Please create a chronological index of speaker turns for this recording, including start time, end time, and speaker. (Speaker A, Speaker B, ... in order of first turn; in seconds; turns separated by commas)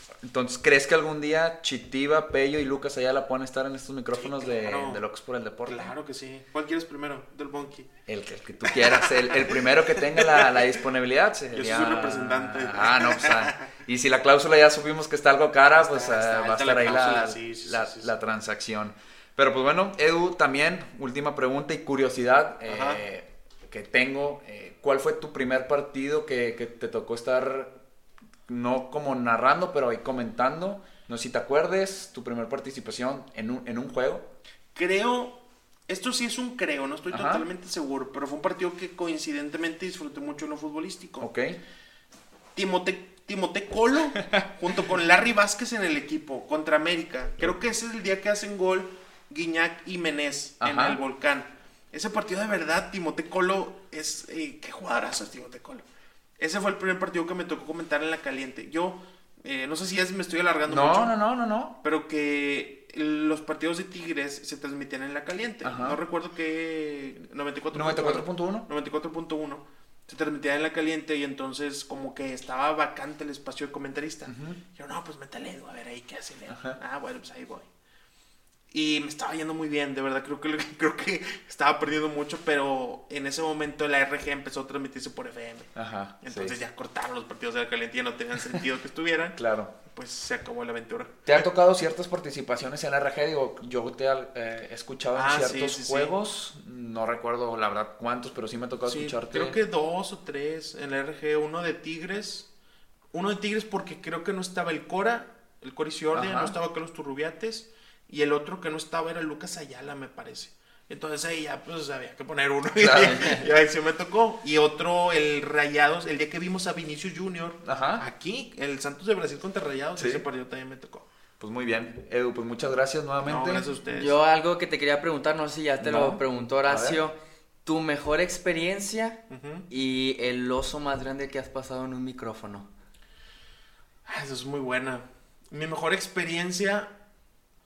Speaker A: 0.2-5.9, Speaker B: 4.2-5.0, Speaker B: 5.7-7.9, Speaker A: 8.1-27.7, Speaker B: 8.7-10.5, Speaker B: 11.5-13.7, Speaker B: 15.8-18.1, Speaker B: 22.6-23.0, Speaker A: 28.5-34.3, Speaker B: 34.7-41.3, Speaker A: 37.1-37.5, Speaker A: 41.2-41.6, Speaker B: 42.5-55.8, Speaker A: 50.6-51.0, Speaker B: 56.4-61.1, Speaker A: 60.7-61.8, Speaker B: 61.8-77.7, Speaker A: 65.6-66.0, Speaker A: 67.7-68.7, Speaker A: 74.3-74.6, Speaker A: 76.5-76.8, Speaker B: 78.7-91.4, Speaker A: 85.8-86.5, Speaker A: 89.3-89.7, Speaker A: 91.2-99.6, Speaker B: 95.1-96.1, Speaker B: 98.8-102.5, Speaker B: 103.1-121.0, Speaker A: 106.1-106.5, Speaker A: 112.8-113.3, Speaker C: 113.2-113.4, Speaker A: 117.6-118.0, Speaker A: 120.0-120.2, Speaker A: 121.4-123.6, Speaker B: 123.2-124.2, Speaker C: 123.9-132.7, Speaker A: 125.8-127.0, Speaker B: 129.3-129.7, Speaker B: 134.1-136.9